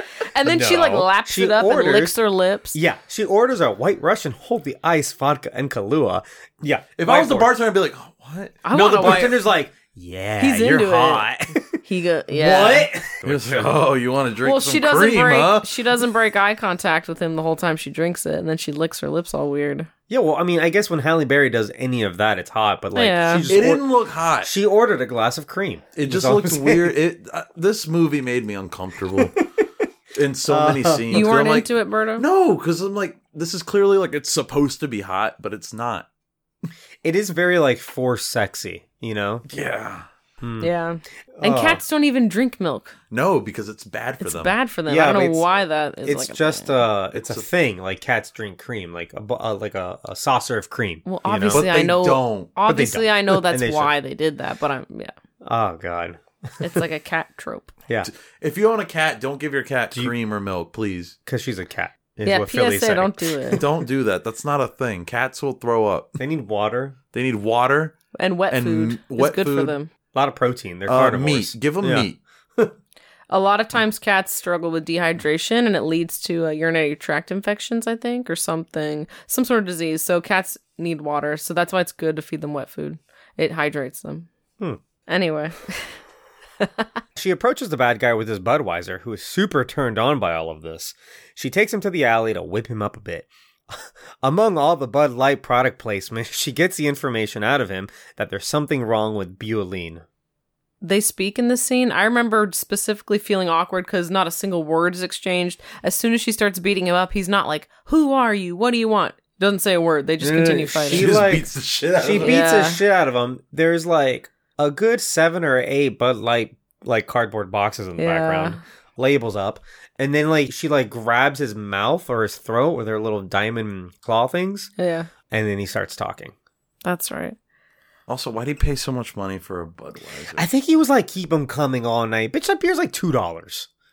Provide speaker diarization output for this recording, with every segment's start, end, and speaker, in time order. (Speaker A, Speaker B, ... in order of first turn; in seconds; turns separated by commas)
Speaker A: 0.2-2.8, Speaker B: 0.4-2.1, Speaker B: 2.7-7.5, Speaker C: 7.0-9.3, Speaker A: 8.6-9.4, Speaker B: 8.7-13.8, Speaker A: 10.4-11.3, Speaker A: 11.8-12.9, Speaker C: 13.2-15.8, Speaker A: 14.4-19.9, Speaker B: 20.1-23.9, Speaker A: 22.9-23.5, Speaker C: 23.5-24.5, Speaker B: 24.4-26.9, Speaker C: 25.9-29.4, Speaker B: 29.1-29.6, Speaker C: 30.1-36.0, Speaker B: 30.5-31.3, Speaker A: 31.1-32.2, Speaker B: 37.0-39.4, Speaker C: 39.5-40.0, Speaker B: 40.4-40.7, Speaker A: 40.6-42.9, Speaker B: 41.4-41.8, Speaker C: 43.1-44.5, Speaker A: 44.2-46.8, Speaker B: 44.9-45.5, Speaker B: 46.0-51.6, Speaker C: 47.1-47.5, Speaker A: 51.0-55.1, Speaker C: 51.5-52.5, Speaker B: 52.7-53.9, Speaker B: 55.4-56.8, Speaker A: 56.6-57.7, Speaker C: 58.0-61.1, Speaker B: 61.2-63.8, Speaker A: 62.2-63.6, Speaker C: 63.5-66.2, Speaker B: 66.2-67.0, Speaker C: 67.1-68.0, Speaker A: 68.1-69.9, Speaker C: 68.5-69.7, Speaker B: 70.1-72.7, Speaker C: 70.9-72.2, Speaker A: 73.3-84.3, Speaker A: 85.1-86.0, Speaker B: 87.2-100.0, Speaker A: 100.8-111.1, Speaker B: 110.2-124.7, Speaker C: 110.9-112.3, Speaker A: 112.2-112.8, Speaker A: 118.0-118.6, Speaker A: 124.8-125.1, Speaker B: 125.3-126.3, Speaker A: 126.8-127.3, Speaker C: 128.1-130.4, Speaker B: 130.3-133.7